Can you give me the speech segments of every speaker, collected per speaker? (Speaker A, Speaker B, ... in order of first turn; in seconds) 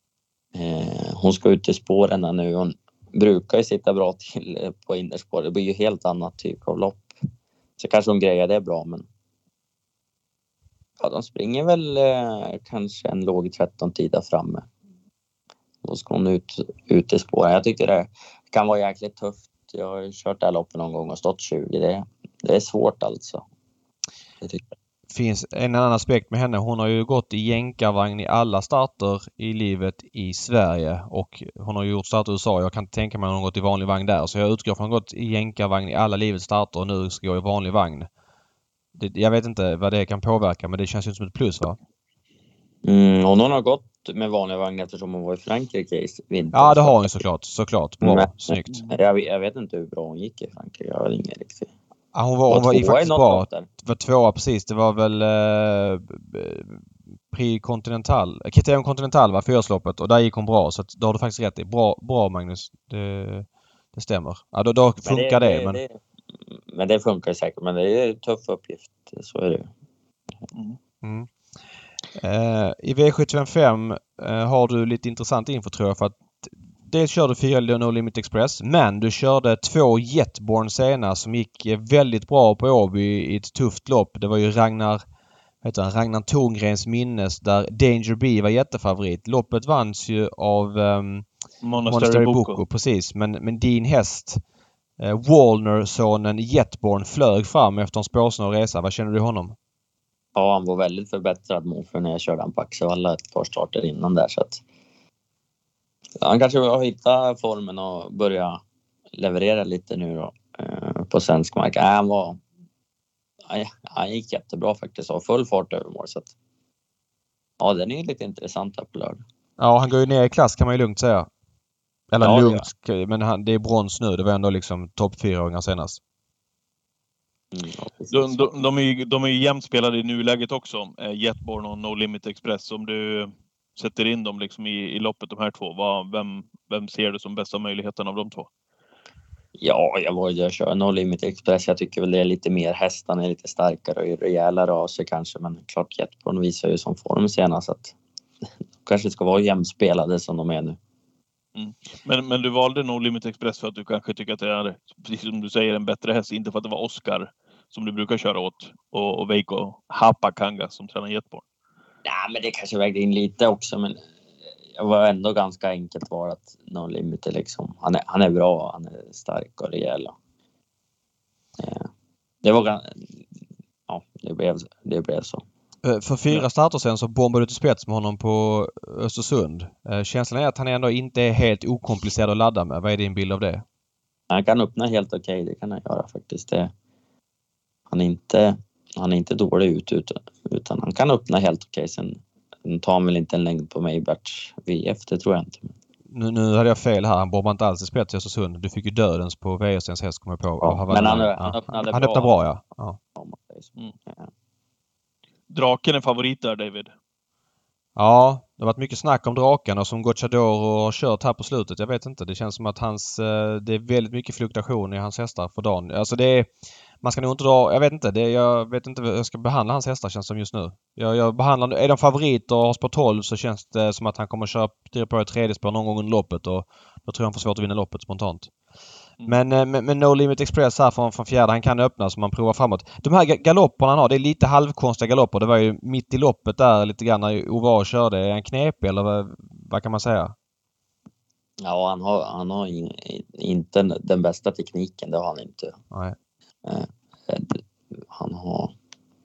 Speaker A: 0.5-7.1, 7.8-9.0, 11.0-14.7, 15.8-23.4, 42.8-47.1, 48.0-51.7, 52.5-53.7, 65.0-65.9, 66.7-69.7, 100.3-104.6, 106.2-108.6, 109.2-112.4, 113.5-116.3, 117.6-119.2, 122.2-122.7, 127.5-128.5, 139.6-147.9, 148.8-150.8, 162.0-164.0, 164.8-170.1, 171.6-171.9, 172.4-173.0, 173.9-175.4, 184.3-186.7, 187.9-195.7, 200.6-202.3, 203.1-204.3, 241.6-245.7, 246.6-248.7
Speaker B: 25.1-38.1, 39.0-41.8, 46.5-48.8, 52.1-65.8, 71.0-71.3, 72.2-85.0, 85.6-91.3, 91.9-94.4, 95.0-99.5, 119.6-121.3, 122.1-126.0, 175.8-183.6, 196.1-203.0, 207.9-216.5, 217.0-228.5, 229.3-240.3, 245.9-246.2
Speaker C: 48.7-49.0, 70.5-70.8, 91.6-92.6, 128.1-138.5, 151.5-161.4, 205.5-206.9